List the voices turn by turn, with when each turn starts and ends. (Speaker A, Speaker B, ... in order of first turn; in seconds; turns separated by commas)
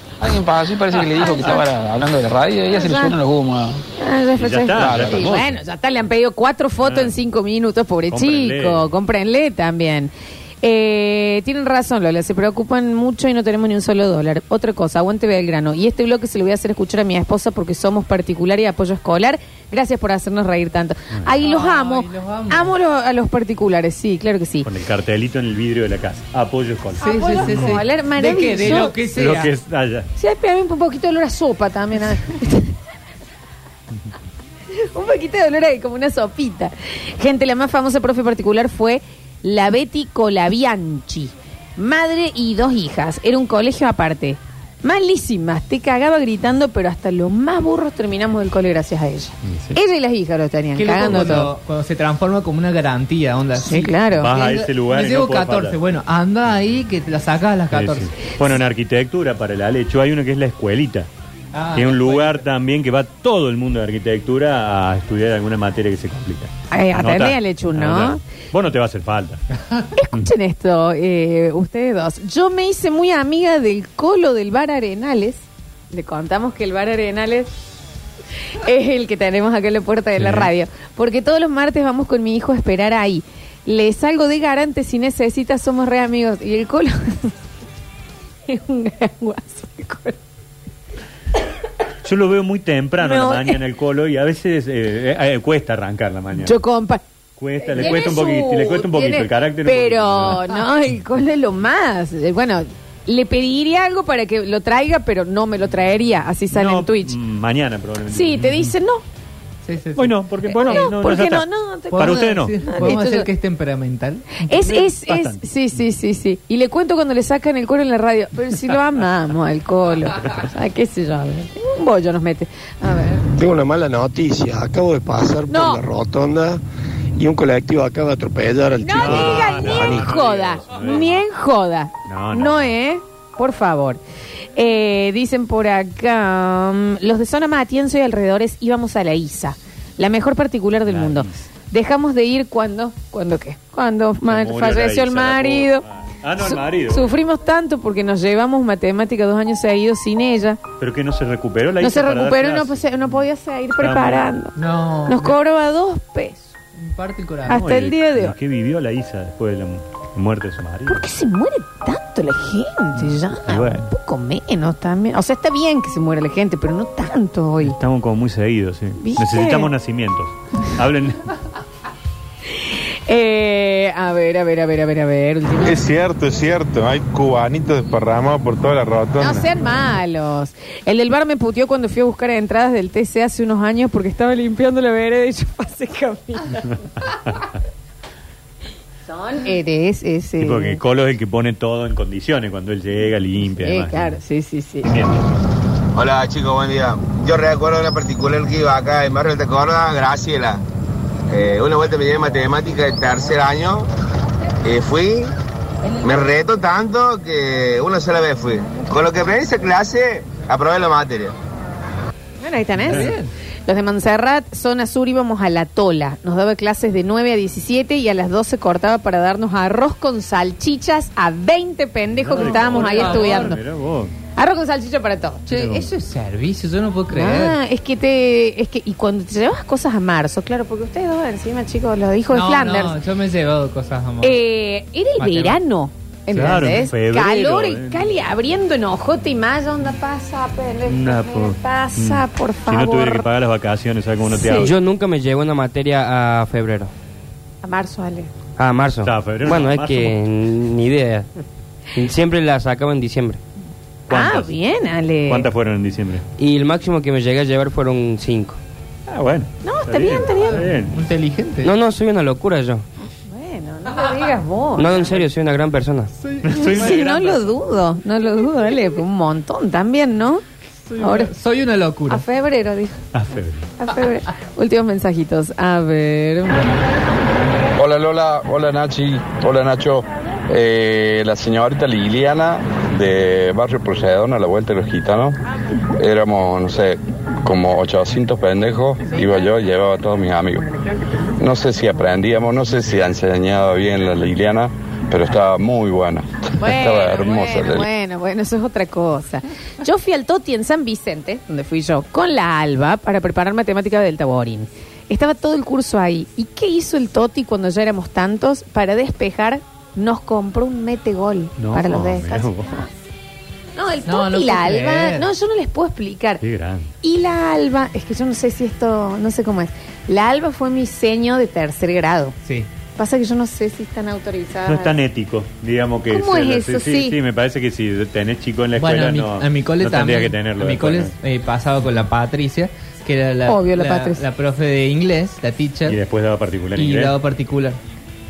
Speaker A: 0.2-3.8, Speaker B: 1.2-1.6, Speaker B: 2.7-3.1, Speaker B: 4.0-24.7, Speaker C: 4.4-5.6, Speaker A: 4.8-5.3, Speaker C: 6.8-7.2, Speaker C: 8.1-8.9, Speaker D: 21.4-22.7, Speaker C: 24.6-27.8, Speaker B: 27.0-29.0, Speaker D: 27.0-29.5, Speaker C: 28.6-30.1, Speaker B: 30.2-32.7, Speaker B: 34.8-51.5, Speaker C: 49.4-49.8, Speaker D: 50.7-58.1, Speaker B: 53.6-54.3, Speaker C: 54.2-55.8, Speaker C: 57.7-61.1, Speaker D: 61.5-62.4, Speaker C: 61.7-69.4, Speaker B: 66.7-68.2, Speaker B: 69.9-77.5, Speaker B: 78.6-87.3, Speaker C: 80.2-80.5, Speaker B: 88.5-90.2, Speaker C: 92.0-96.6, Speaker B: 93.0-93.6, Speaker B: 96.3-97.0, Speaker C: 97.4-100.5, Speaker B: 97.6-107.1, Speaker C: 106.5-108.7, Speaker B: 108.1-109.0, Speaker D: 109.6-110.9, Speaker C: 110.0-112.9, Speaker B: 110.6-113.3, Speaker D: 111.9-114.4, Speaker B: 114.4-123.2, Speaker C: 114.6-115.4, Speaker E: 123.4-126.6, Speaker B: 125.5-125.8, Speaker E: 127.2-130.1, Speaker B: 128.8-134.0, Speaker C: 128.9-131.2, Speaker C: 132.1-132.8, Speaker B: 134.5-145.8, Speaker C: 140.9-141.4, Speaker C: 144.3-147.2, Speaker B: 146.4-150.6, Speaker C: 150.8-153.2, Speaker B: 151.8-154.5, Speaker C: 153.8-154.4, Speaker D: 154.6-155.3, Speaker B: 155.1-156.5, Speaker D: 156.7-157.6, Speaker B: 157.5-158.3, Speaker C: 157.5-161.1, Speaker B: 160.8-167.8, Speaker C: 163.0-163.9, Speaker C: 167.6-171.3, Speaker B: 169.0-169.7, Speaker B: 173.1-175.9, Speaker F: 175.7-179.4, Speaker B: 179.2-187.3, Speaker B: 189.1-190.8, Speaker C: 190.4-194.2, Speaker B: 193.6-194.9, Speaker C: 194.8-195.1, Speaker G: 195.9-200.6, Speaker G: 201.3-203.8, Speaker G: 204.6-205.3, Speaker G: 206.0-211.3, Speaker B: 212.4-223.6, Speaker D: 212.8-213.3, Speaker C: 222.2-224.1, Speaker D: 222.3-223.6, Speaker B: 224.3-225.4, Speaker D: 225.5-227.6, Speaker C: 225.5-225.8, Speaker B: 227.1-233.0, Speaker D: 232.3-234.4, Speaker B: 234.2-243.2, Speaker D: 235.2-235.6, Speaker C: 236.3-238.1, Speaker D: 236.3-236.7, Speaker C: 240.9-244.7, Speaker B: 244.3-244.7, Speaker H: 244.6-246.9, Speaker B: 247.6-248.3, Speaker H: 248.6-251.3, Speaker C: 249.0-250.2, Speaker H: 252.0-253.4, Speaker C: 254.1-254.6, Speaker B: 254.1-255.5, Speaker C: 255.2-256.2, Speaker H: 256.4-258.6, Speaker C: 259.1-260.9, Speaker B: 259.6-260.6, Speaker D: 260.6-261.7, Speaker H: 261.6-262.8, Speaker B: 263.2-265.1, Speaker H: 264.8-266.1, Speaker D: 266.1-267.0, Speaker C: 266.4-267.6, Speaker B: 266.5-270.4, Speaker D: 270.9-272.2, Speaker B: 271.0-271.3, Speaker B: 272.1-273.0, Speaker C: 273.1-273.7, Speaker B: 273.8-276.7, Speaker I: 277.8-285.4, Speaker I: 286.0-290.7, Speaker I: 291.4-297.9, Speaker B: 296.6-312.9, Speaker C: 311.6-312.8, Speaker B: 313.8-316.4, Speaker D: 314.1-315.3, Speaker C: 316.4-316.9, Speaker B: 317.0-322.4, Speaker B: 322.9-324.9, Speaker C: 324.6-331.1, Speaker B: 326.1-327.1, Speaker D: 328.8-336.0, Speaker B: 333.4-334.2, Speaker C: 335.9-337.1, Speaker D: 336.8-337.8